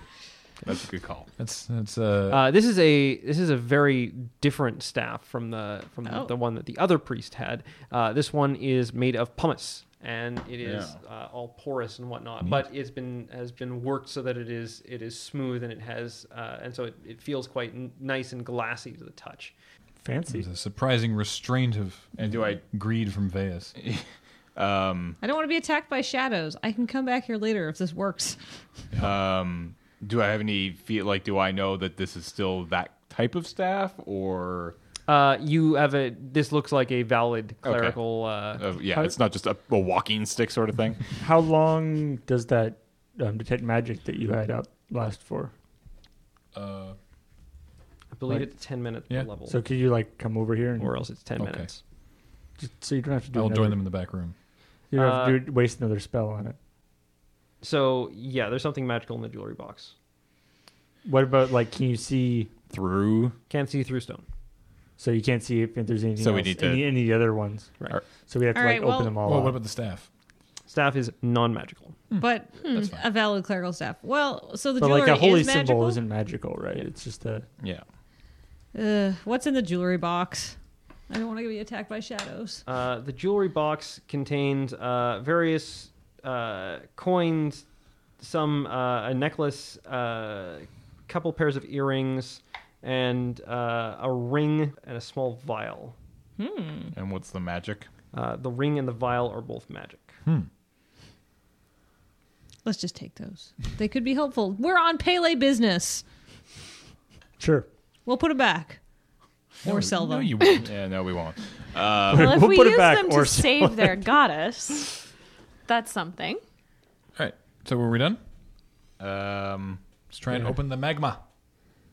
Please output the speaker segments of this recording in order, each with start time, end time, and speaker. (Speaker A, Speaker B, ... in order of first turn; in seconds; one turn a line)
Speaker A: 0.6-1.3
Speaker B: 1.4-2.5
Speaker C: 2.3-19.5
Speaker D: 6.0-6.3
Speaker A: 10.6-11.0
Speaker E: 20.0-20.4
Speaker B: 20.3-23.7
Speaker A: 22.2-22.6
Speaker A: 23.8-24.0
Speaker A: 24.6-25.1
Speaker D: 25.2-28.4
Speaker A: 29.0-34.8
Speaker C: 35.1-38.6
Speaker A: 37.6-38.0
Speaker A: 38.6-41.0
Speaker E: 41.2-45.5
Speaker B: 46.5-47.0
Speaker C: 48.1-49.6
Speaker E: 49.5-51.0
Speaker C: 50.8-51.8
Speaker B: 51.4-51.7
Speaker E: 52.6-53.8
Speaker B: 53.3-54.3
Speaker E: 54.9-56.5
Speaker C: 54.9-55.4
Speaker C: 57.6-59.9
Speaker E: 61.0-62.5
Speaker A: 62.7-63.3
Speaker C: 63.5-64.2
Speaker E: 65.0-67.8
Speaker A: 66.2-66.9
Speaker E: 68.3-69.6
Speaker D: 68.5-69.1
Speaker B: 69.2-70.1
Speaker C: 70.7-72.0
Speaker B: 72.1-73.0
Speaker D: 72.2-76.0
Speaker F: 72.6-72.9
Speaker E: 74.8-77.5
Speaker D: 78.7-80.5
Speaker D: 81.1-82.6
Speaker C: 82.7-87.6
Speaker C: 88.2-96.0
Speaker D: 96.4-96.9
Speaker A: 96.9-97.9
Speaker C: 98.1-100.1
Speaker D: 102.6-106.0
Speaker E: 107.4-107.7
Speaker D: 108.0-108.8
Speaker D: 109.6-110.5
Speaker B: 109.6-110.7
Speaker A: 110.5-112.4
Speaker E: 112.1-114.0
Speaker F: 112.1-115.0
Speaker F: 115.7-116.4
Speaker B: 117.2-118.2
Speaker A: 119.0-119.8
Speaker B: 120.1-121.2